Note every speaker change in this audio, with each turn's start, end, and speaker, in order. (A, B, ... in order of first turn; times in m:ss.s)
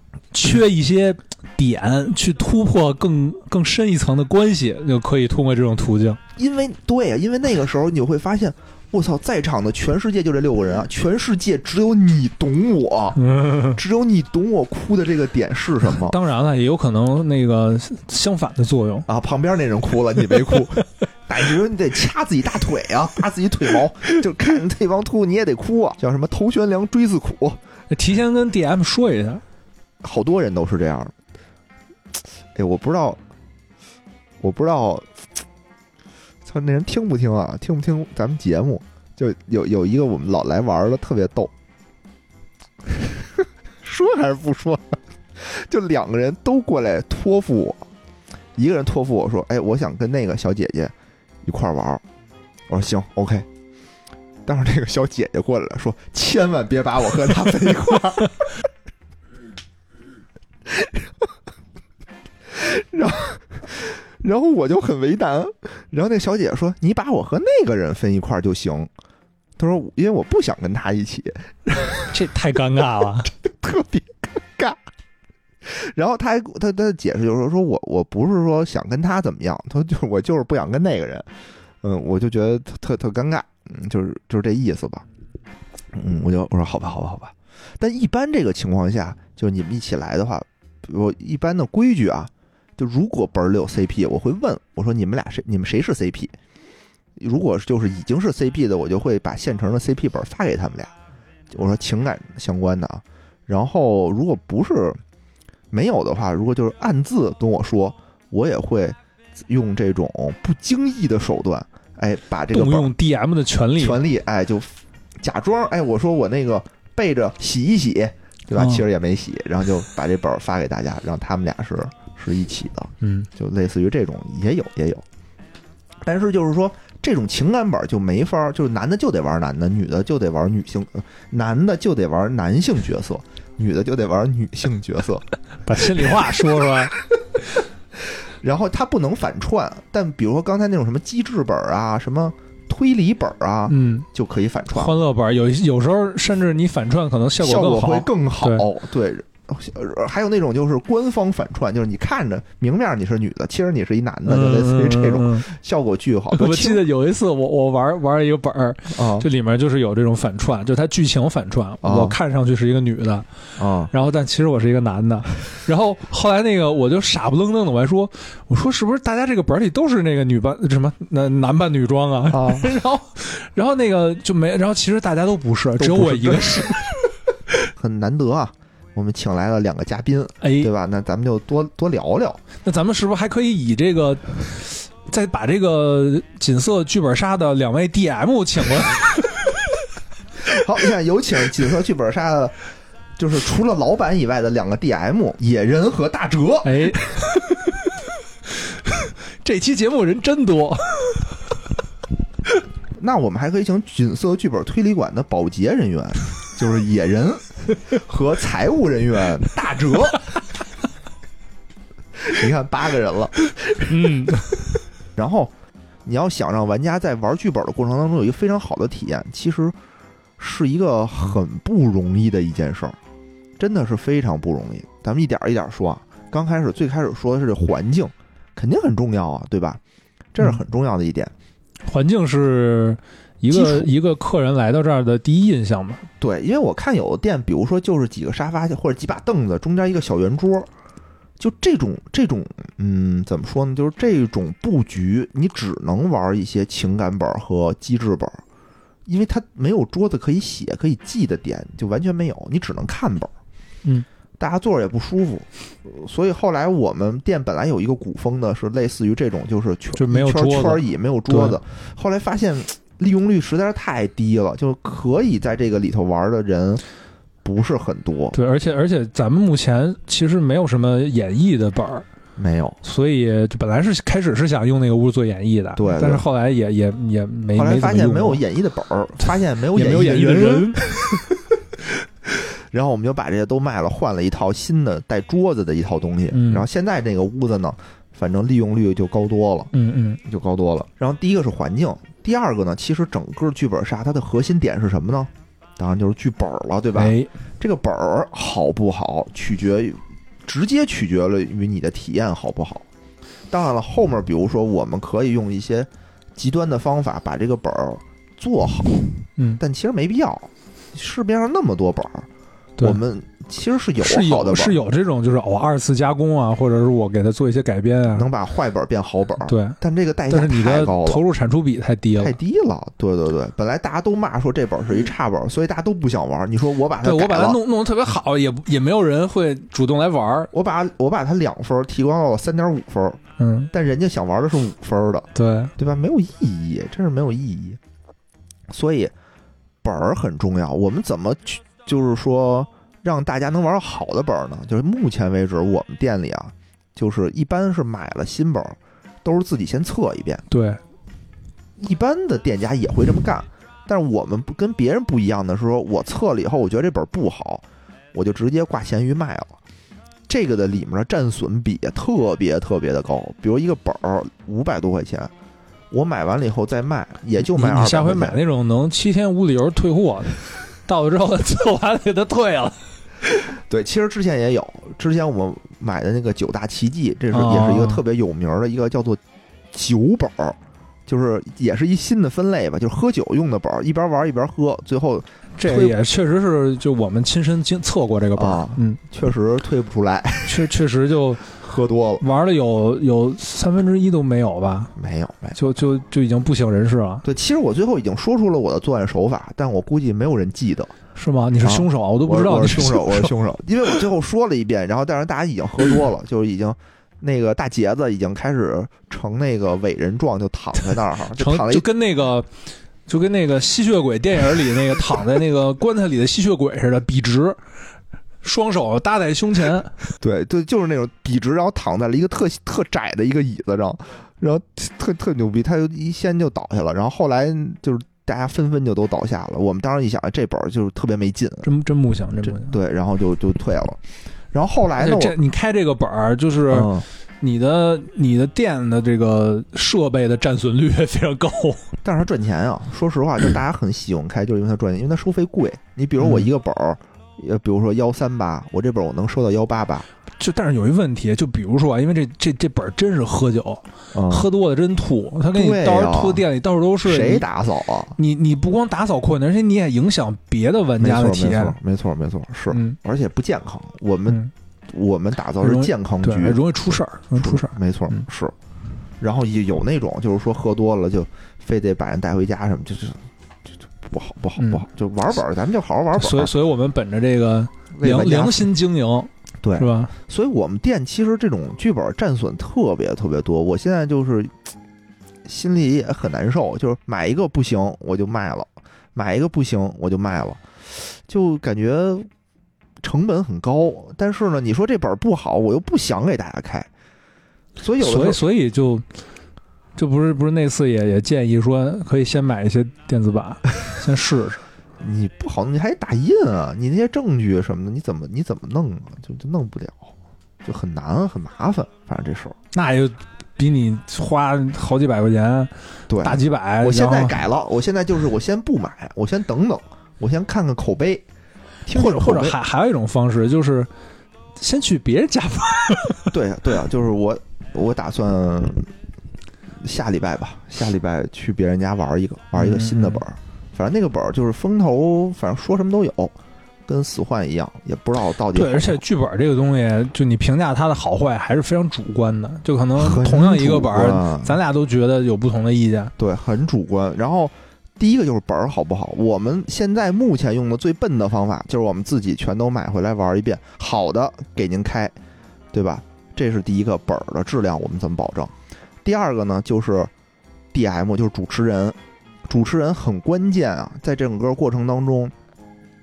0:00.3-0:06.2 A
0:06.4-0:16.2 B
0:13.2-0:13.8 A
0:16.0-0:19.1 A
0:19.1-0:27.6 B
0:27.9-0:29.4 A
0:30.0-0:31.1 B
0:32.5-0:33.2 B
0:34.4-0:35.1 B
0:36.4-0:41.5 B
0:42.9-0:47.8 B
0:48.6-0:52.0 B
0:52.7-0:53.5 B
0:54.4-0:58.5 B
1:00.6-1:01.1 B
1:02.5-1:08.9 B
1:09.6-1:12.1 B
1:12.1-1:13.3 A
1:13.3-1:14.8 B
1:15.6-1:21.3 B
1:21.8-1:25.0 B
1:25.9-1:36.3 B
1:37.2-1:40.9 B
1:41.5-1:45.0 B
1:45.7-1:52.9 B
1:52.5-1:54.0 A
1:53.8-2:05.0 B
1:58.5-1:58.8 A
2:03.0-2:03.3 A
2:06.0-2:15.2 B
2:15.6-2:17.0 A
2:17.0-2:17.4 B
2:18.3-2:24.9 B
2:23.7-2:24.1 A
2:24.7-2:28.7 A
2:27.4-2:36.8 B
2:34.2-2:35.5 A
2:36.3-2:43.3 A
2:38.9-2:39.3 B
2:41.8-2:42.2 B
2:43.6-2:43.9 B
2:43.9-2:56.9 A
2:52.3-2:52.7 B
2:55.8-2:56.9 B
2:57.7-3:02.4 B
3:00.4-3:00.7 A
3:02.6-3:09.5 A
3:10.5-3:12.6 B
3:13.2-3:17.3 B
3:16.6-3:17.4 A
3:18.9-3:21.2 A
3:23.0-3:30.4 B
3:32.2-3:34.5 B
3:33.9-3:34.5 A
3:35.1-3:35.5 B
3:36.0-3:39.8 B
3:40.4-3:43.0 B
3:43.6-3:49.8 B
3:50.3-3:51.3 B
3:51.8-3:56.0 A
3:53.5-3:53.9 B
3:56.2-4:00.7 B
4:01.4-4:08.4 B
4:09.0-4:13.3 B
4:14.4-4:26.8 B
4:20.0-4:21.6 A
4:27.4-4:28.4 B
4:28.3-4:32.0 A
4:32.4-4:32.8 B
4:32.8-4:38.4 A
4:35.8-4:36.2 B
4:37.5-4:49.7 B
4:39.7-4:41.3 A
4:46.3-4:46.6 A
4:49.7-4:50.2 A
4:50.2-5:02.9 B
4:57.0-4:57.3 A
5:03.5-5:09.0 B
5:09.6-5:12.3 B
5:12.8-5:14.8 B
5:14.0-5:18.3 A
5:18.1-5:21.2 B
5:19.4-5:22.4 A
5:22.2-5:27.6 B
5:27.0-5:30.5 A
5:30.5-5:37.8 B
5:33.4-5:33.7 A
5:35.3-5:35.7 A
5:38.7-5:39.1 B
5:39.8-5:50.4 B
5:50.5-5:50.8 A
5:51.8-5:59.6 B
6:00.3-6:05.3 B
6:05.9-6:08.4 B
6:07.5-6:12.8 A
6:13.6-6:19.2 B
6:17.3-6:18.0 A
6:19.7-6:26.0 B
6:25.6-6:29.0 A
6:28.4-6:30.7 B
6:30.4-6:31.4 A
6:31.5-6:32.2 B
6:32.2-6:34.9 A
6:35.0-6:35.6 B
6:35.6-6:37.2 A
6:37.2-6:40.9 B
6:41.1-6:43.3 A
6:41.6-6:51.9 B
6:51.3-6:52.5 A
6:53.1-6:57.6 A
6:58.4-6:59.9 A
7:00.2-7:11.7 B
7:11.6-7:12.7 A
7:12.4-7:14.0 B
7:14.5-7:15.4 B
7:15.0-7:21.9 A
7:16.7-7:17.0 B
7:22.0-7:30.1 B
7:26.2-7:26.5 A
7:30.4-7:37.4 A
7:34.1-7:34.4 B
7:35.5-7:36.4 B
7:37.0-7:38.2 B
7:38.2-7:41.8 A
7:41.0-7:46.6 B
7:42.7-7:43.0 A
7:45.6-7:48.2 A
7:47.3-7:48.5 B
7:49.2-7:56.5 B
7:54.6-7:54.8 A
7:56.2-8:00.1 A
7:57.9-7:58.7 B
7:59.6-8:04.5 B
8:05.4-8:12.3 B
8:13.0-8:16.9 B
8:17.8-8:18.4 B
8:18.0-8:19.0 A
8:20.0-8:24.6 A
8:25.0-8:32.6 B
8:32.7-8:37.4 A
8:36.1-8:41.2 B
8:41.8-8:42.6 B
8:41.9-8:43.9 A
8:44.6-8:46.3 A
8:46.3-8:48.9 B
8:49.7-8:56.3 B
8:52.5-8:53.2 A
8:56.8-8:59.0 B
8:58.5-9:06.1 A
9:03.0-9:04.6 B
9:06.2-9:15.2 B
9:15.7-9:18.5 B
9:19.0-9:20.1 B
9:20.7-9:25.3 B